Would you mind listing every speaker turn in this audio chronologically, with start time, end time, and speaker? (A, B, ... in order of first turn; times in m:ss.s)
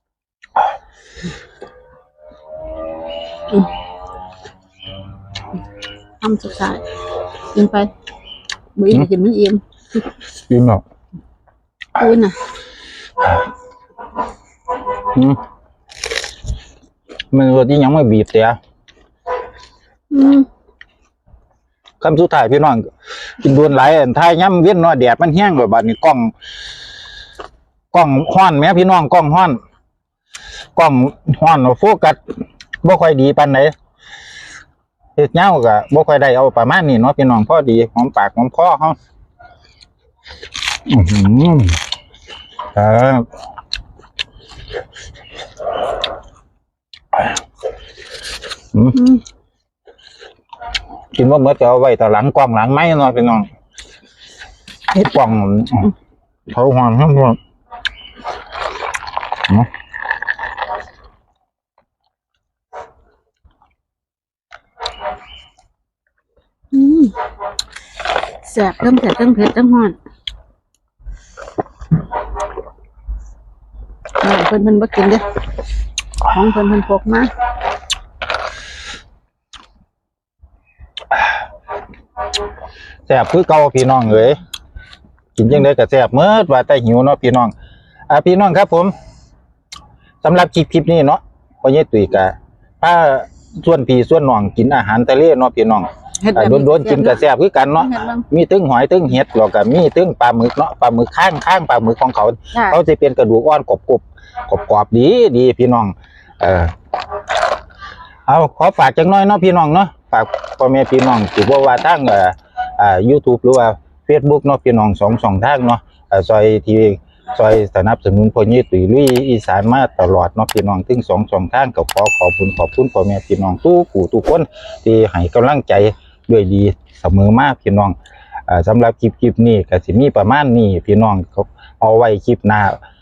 0:06.2-0:06.8 A
0:07.5-0:07.9 A
0:08.8-0:09.6 A
0:10.5-0:10.8 B
0:12.0-0:12.4 A
0:15.1-0:15.4 B
0:17.3-0:18.6 B
0:20.1-0:20.5 A
0:22.0-0:22.9 B
0:23.4-0:26.3 B
0:27.9-0:29.6 B
0:30.8-0:32.2 B
0:32.8-0:33.7 B
0:35.2-0:39.0 B
0:40.9-0:41.8 B
0:42.7-0:43.3 B
0:48.7-0:49.2 B
0:51.1-0:53.5 B
0:54.9-0:55.9 B
0:56.5-0:57.4 B
1:06.7-1:07.2 A
1:08.4-1:10.0 A
1:14.2-1:15.3 A
1:16.3-1:17.3 A
1:23.1-1:24.4 B
1:25.4-1:27.5 B
1:28.1-1:28.9 B
1:30.2-1:46.7 B
1:36.2-1:37.2 A
1:37.8-1:38.2 A
1:42.5-1:42.8 A
1:48.3-2:08.0 B
2:08.5-2:12.8 B